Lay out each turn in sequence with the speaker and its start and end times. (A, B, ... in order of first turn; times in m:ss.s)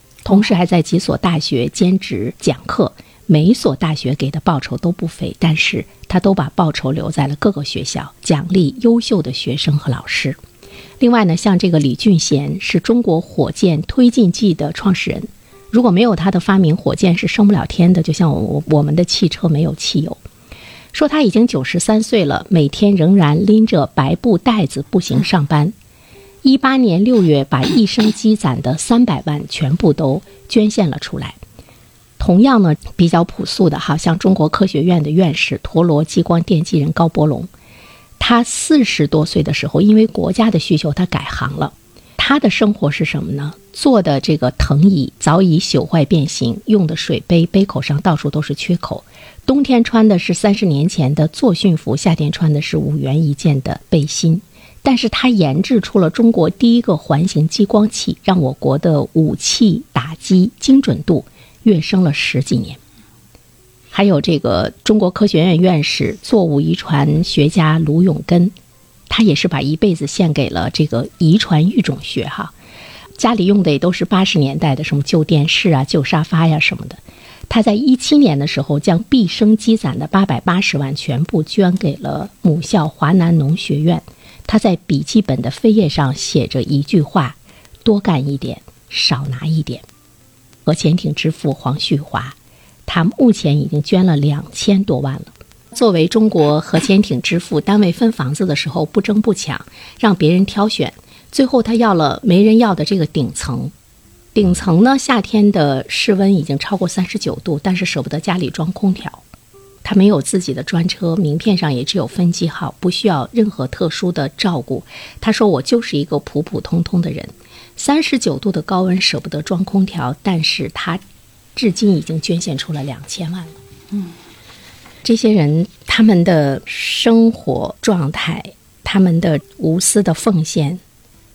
0:00.2-0:10.4 A
0:11.0-0:20.2 A
0:20.9-0:25.8 A
0:26.4-0:31.4 A
0:32.2-0:37.5 A
0:38.2-1:02.8 A
1:03.9-1:08.5 A
1:09.1-1:12.5 A
1:13.2-1:29.8 A
1:30.7-1:43.7 A
1:44.3-1:49.2 A
1:49.8-2:01.0 A
2:01.6-2:03.6 A
2:05.0-2:10.8 A